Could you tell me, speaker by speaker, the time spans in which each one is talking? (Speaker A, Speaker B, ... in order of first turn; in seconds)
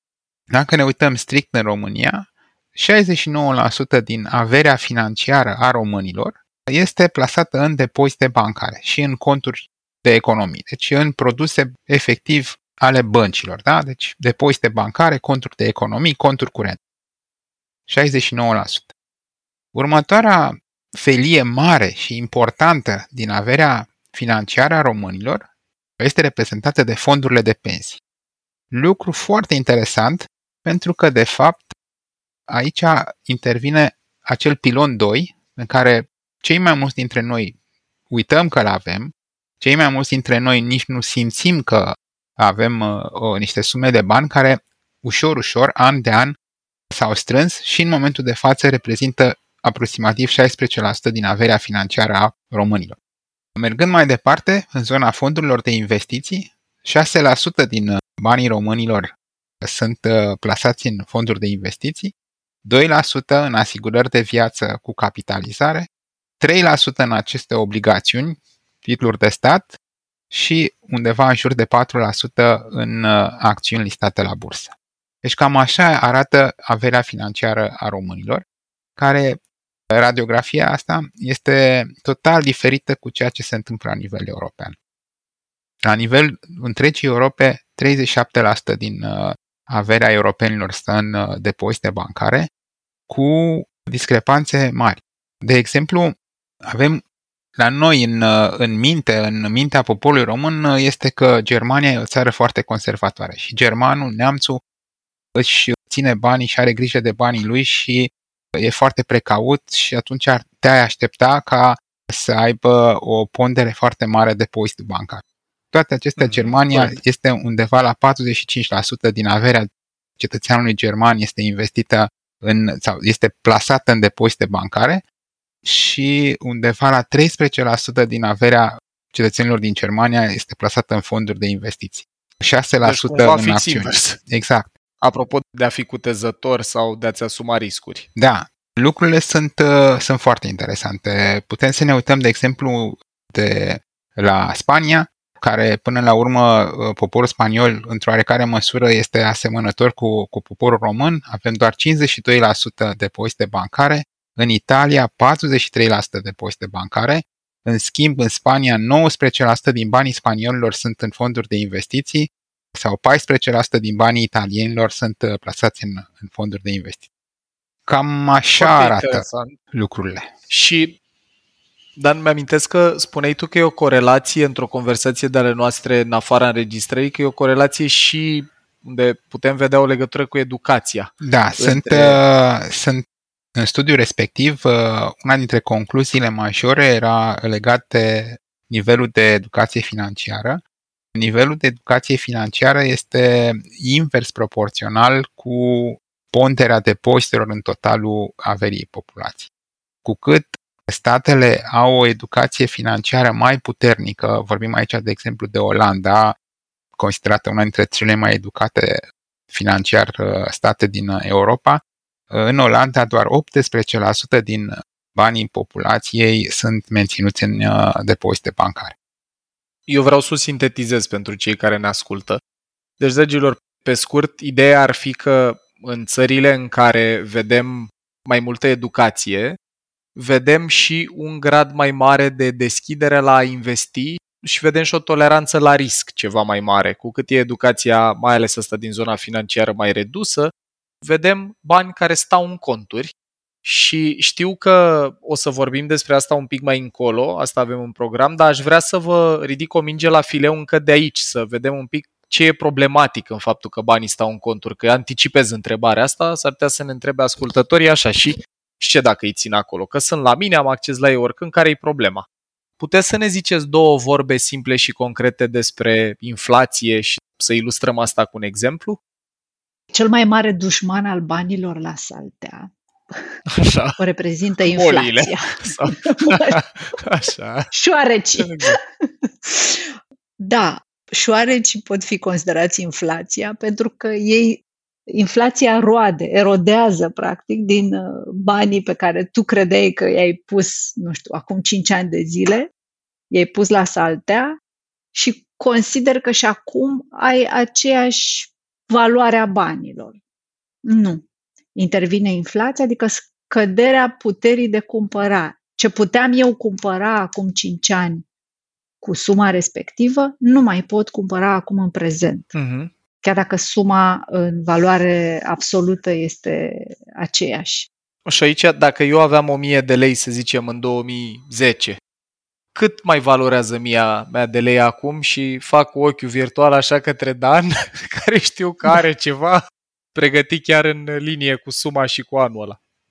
Speaker A: 0.5-16.8, 17.9-18.9, 19.7-25.5, 26.0-28.0, 28.7-31.8, 32.5-37.5, 38.1-46.4, 46.9-53.0, 53.6-62.1, 62.6-65.9, 66.4-69.8, 70.3-74.7, 75.2-78.4, 79.0-79.4, 79.9-84.8, 85.8-92.5, 93.1-97.0, 97.6-104.6, 105.3-125.0, 125.6-134.7, 138.2-167.0, 167.9-170.3, 181.2-183.0, 183.6-190.6, 191.2-199.5, 200.0-206.4, 207.0-218.9
Speaker B: 116.2-117.0, 132.8-134.2, 135.0-138.1, 168.6-169.5, 170.5-171.0, 172.0-182.2, 219.9-222.4, 223.0-229.6, 230.2-240.5, 241.0-243.1, 243.6-262.2, 262.8-269.0, 273.6-274.0, 274.7-277.7, 278.4-278.8, 312.6-312.9, 318.3-322.0, 322.7-329.6, 330.1-332.8
Speaker C: 269.9-273.3, 274.0-276.6, 277.7-292.7, 293.3-294.6, 295.1-300.1, 300.9-301.2, 301.8-308.2, 309.0-312.5, 313.2-317.9